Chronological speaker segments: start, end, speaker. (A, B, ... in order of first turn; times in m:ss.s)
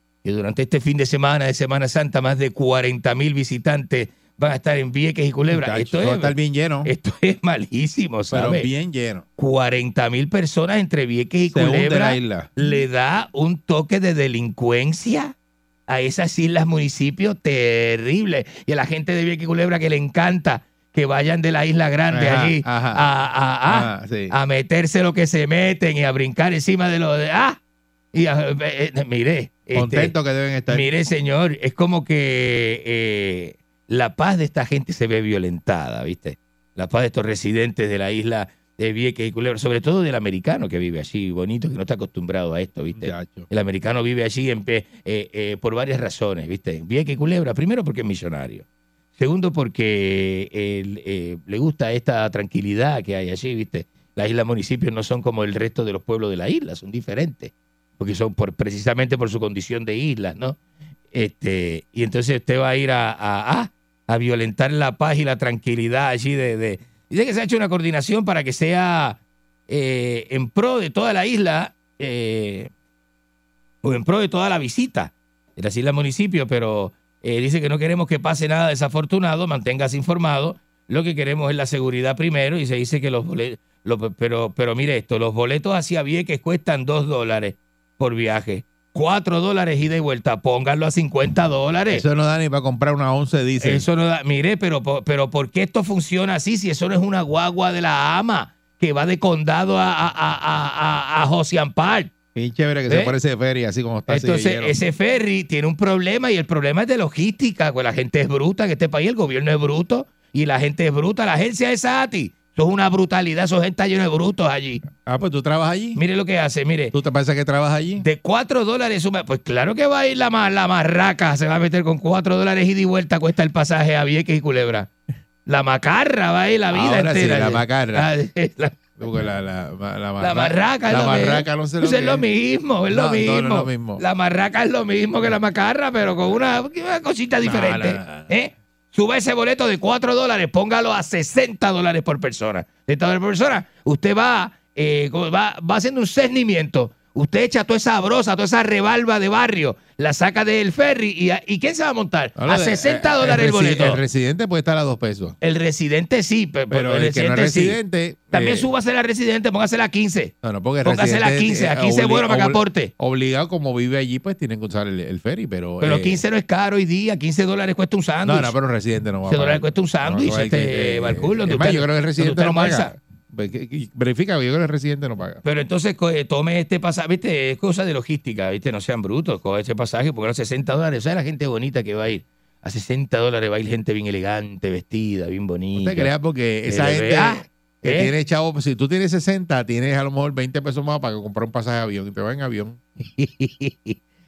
0:00.2-0:08.7 A
0:05.5-0:06.9 B
0:08.3-0:09.2 B
0:09.4-0:15.3 A
0:11.5-0:12.5 B
0:15.9-0:27.6 A
0:22.1-0:23.0 B
0:23.7-0:24.3 B
0:28.1-0:30.2 A
0:29.7-0:30.9 B
0:30.7-0:48.6 A
0:43.0-0:43.5 B
0:49.2-1:00.6 A
1:01.1-1:12.7 A
1:13.8-1:32.0 A
1:31.9-1:33.8 B
1:33.6-1:42.1 A
1:42.4-1:44.8 B
1:42.9-1:43.1 A
1:44.1-1:54.8 A
1:55.0-1:56.0 B
1:56.0-1:56.9 A
1:56.9-1:58.0 B
1:58.0-2:04.9 A
2:05.4-2:09.0 A
2:06.7-2:08.1 B
2:09.0-2:12.2 B
2:10.2-2:34.0 A
2:12.9-2:14.0 B
2:17.4-2:18.3 B
2:32.4-2:35.4 B
2:35.4-2:37.8 A
2:36.7-2:38.7 B
2:38.3-2:40.3 A
2:40.4-2:46.2 B
2:40.8-2:42.9 A
2:45.8-2:48.5 A
2:48.2-2:55.4 B
2:49.3-2:53.0 A
2:55.4-3:06.1 A
3:05.8-3:12.8 B
3:06.7-3:08.1 A
3:13.2-3:14.0 A